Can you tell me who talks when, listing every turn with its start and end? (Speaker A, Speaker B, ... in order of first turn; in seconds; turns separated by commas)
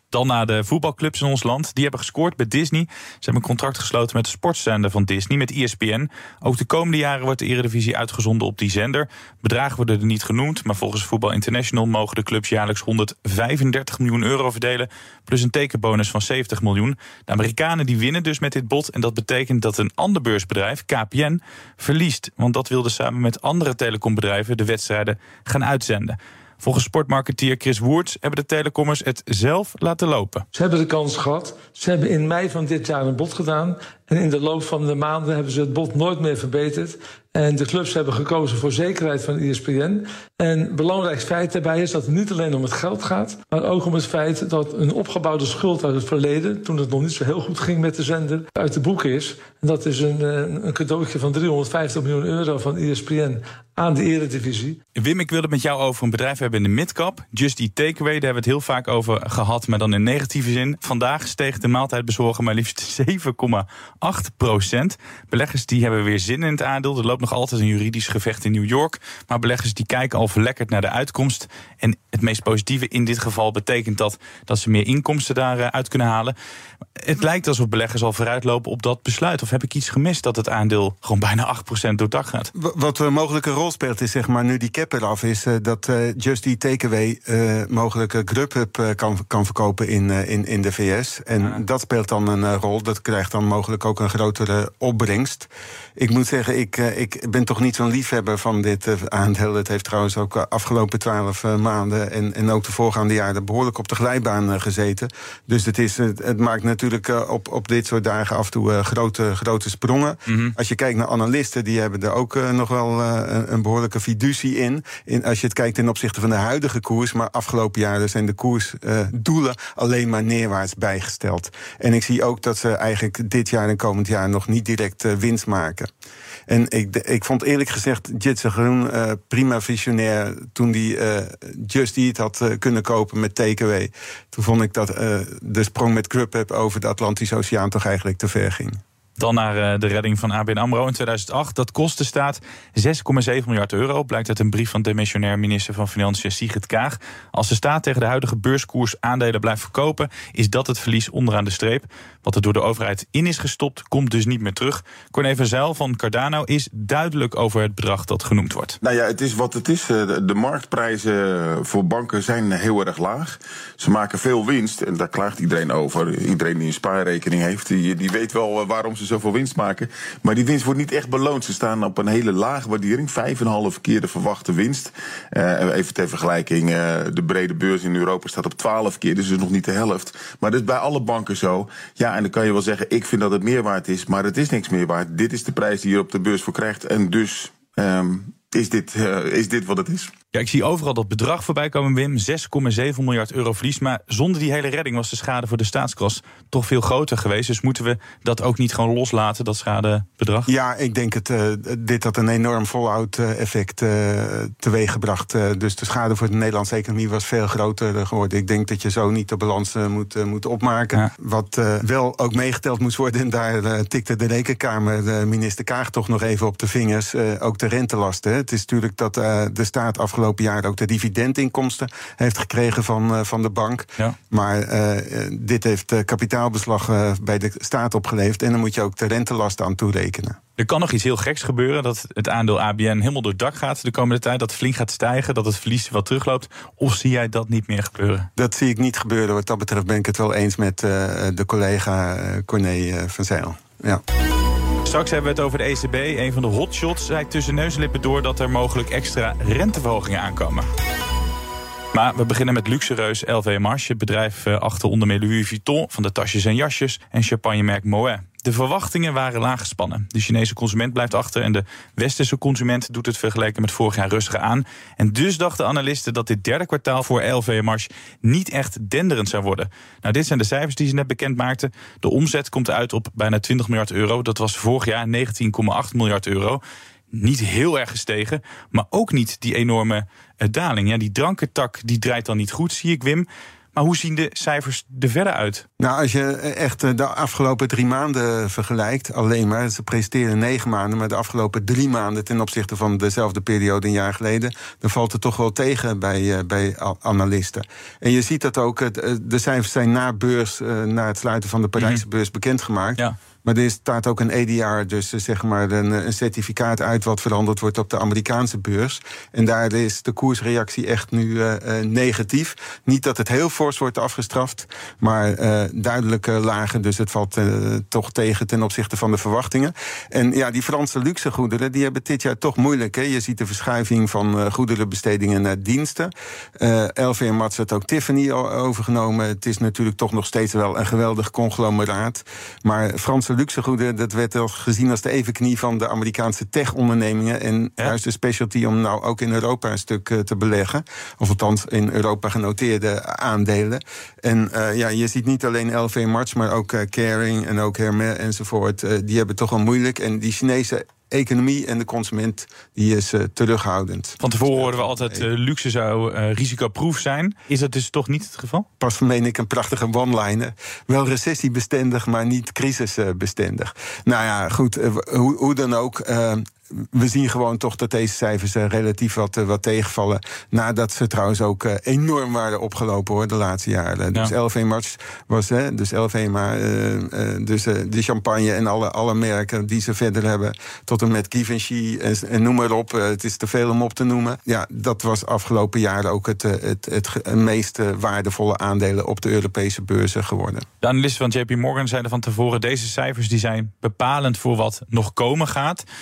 Speaker A: 0.1-30.4, Speaker B: 30.5-54.8, Speaker A: 55.0-76.3, Speaker A: 77.0-82.5, Speaker C: 82.5-125.9, Speaker A: 110.3-110.5, Speaker C: 126.5-138.8, Speaker A: 139.2-158.8, Speaker D: 158.8-190.1, Speaker A: 190.3-200.5, Speaker C: 200.5-230.4, Speaker A: 230.6-238.3, Speaker C: 238.3-244.0, Speaker A: 244.8-250.7, Speaker A: 251.9-276.6, Speaker A: 277.1-285.6, Speaker C: 285.8-355.3, Speaker A: 301.8-302.0, Speaker A: 354.2-358.7, Speaker C: 358.8-390.6, Speaker A: 390.8-395.8